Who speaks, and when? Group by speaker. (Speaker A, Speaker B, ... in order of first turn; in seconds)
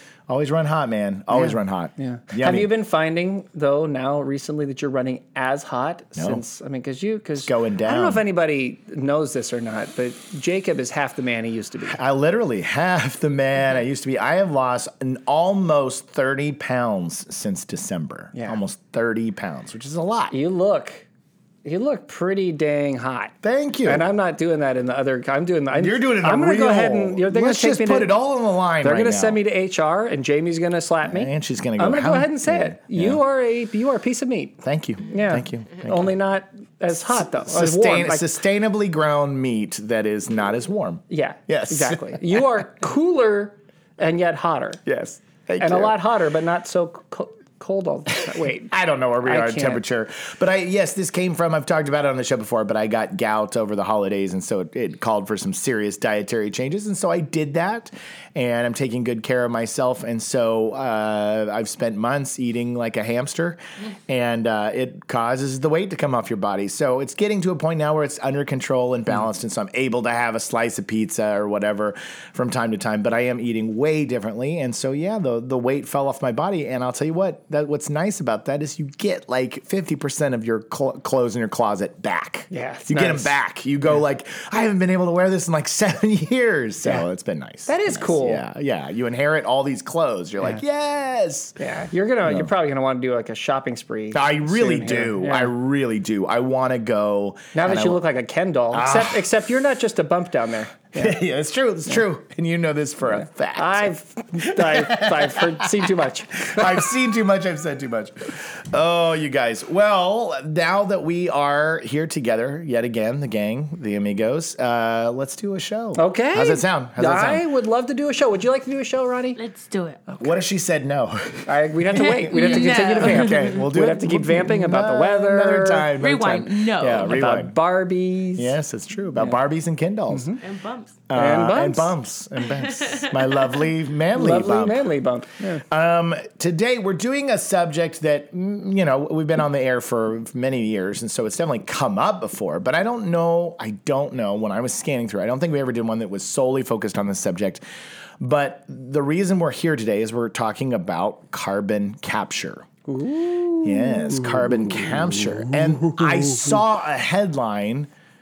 Speaker A: 0.3-2.7, 6.2-6.4, 7.4-8.2, 11.9-20.4, 23.4-24.1, 25.7-29.4, 31.1-33.2, 34.6-36.1, 37.2-42.4, 44.9-46.0, 48.6-91.6, 92.2-92.5, 94.1-98.0, 98.7-99.2, 101.0-103.9, 104.5-105.8, 106.4-117.5, 120.2-127.6, 128.4-130.3, 131.1-134.9, 135.6-147.6, 148.2-152.7, 153.6-157.9
Speaker B: 1.3-12.0, 18.3-18.6, 20.3-21.1, 21.6-23.3, 23.9-28.1, 28.8-38.3, 41.1-44.8, 45.6-49.8, 82.5-83.3, 87.7-88.4, 91.6-95.5, 97.5-101.2, 103.6-106.9, 116.0-119.4, 121.5-125.9, 127.0-128.6, 130.1-130.4, 131.1-131.9, 134.1-135.6, 152.9-154.9, 155.8-156.5
Speaker C: 119.4-120.0, 122.0-123.6, 126.0-127.2, 130.4-131.0, 132.5-133.2